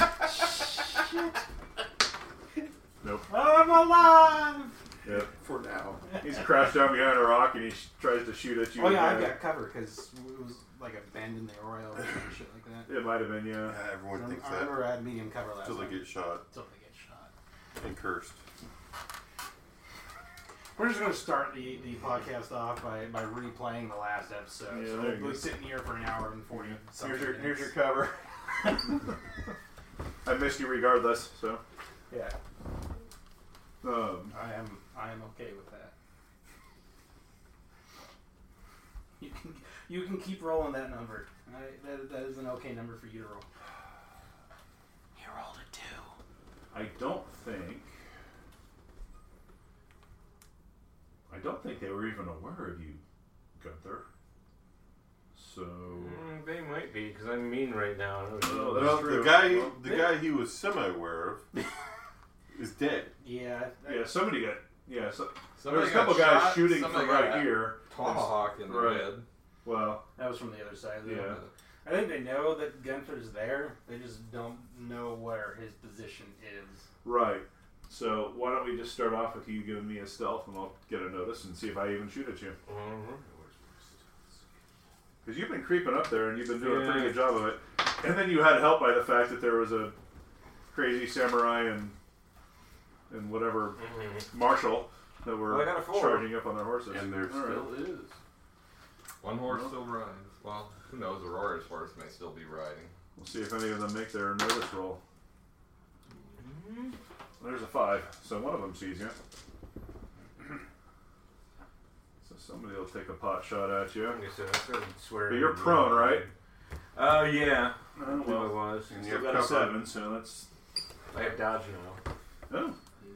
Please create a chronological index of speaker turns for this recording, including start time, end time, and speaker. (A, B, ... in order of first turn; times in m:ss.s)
0:00.4-0:01.4 A
0:03.0-0:03.3 B
0:03.3-0:04.7 A
0:05.0-0:05.3 B
0:05.3-0:06.0 C
0:06.2-0:09.4 B
0:08.7-0:12.9 A
0:12.9-0:13.8 B
0:13.6-0:15.0 C
0:14.1-0:17.3 A
0:15.6-0:16.4 C
0:17.8-0:18.4 C
0:20.8-0:27.8 A
0:24.7-0:25.5 B
0:26.5-0:29.0 B
0:30.2-0:31.6 B
0:32.1-0:32.3 A
0:33.8-0:34.3 B
0:34.3-0:35.9 A
0:39.2-0:43.4 A
0:45.1-0:46.1 A
0:46.7-0:47.9 B
0:51.3-0:53.0 B
0:53.6-0:54.0 B
0:55.3-0:56.3 B
0:55.9-0:59.1 D
0:58.4-0:59.8 B
0:58.6-1:01.5 C
1:02.5-1:03.1 C
1:03.2-1:04.2 A
1:03.8-1:10.0 B
1:05.6-1:09.2 E
1:10.2-1:16.8 A
1:11.0-1:11.4 B
1:17.0-1:22.6 B
1:22.6-1:24.0 D
1:25.2-1:30.0 B
1:26.5-1:27.3 D
1:30.7-1:32.0 B
1:33.1-1:37.7 B
1:33.8-1:34.3 D
1:35.4-1:36.4 D
1:36.9-1:38.1 C
1:39.2-1:42.9 E
1:39.4-1:39.7 B
1:43.2-1:45.0 B
1:46.4-1:47.0 D
1:47.4-1:49.2 B
1:52.2-1:54.2 B
1:54.0-1:56.3 D
1:55.3-1:56.2 B
1:56.9-1:58.9 D
1:58.0-2:00.5 B
1:58.9-1:59.9 C
2:01.1-2:02.0 D
2:02.5-2:02.8 B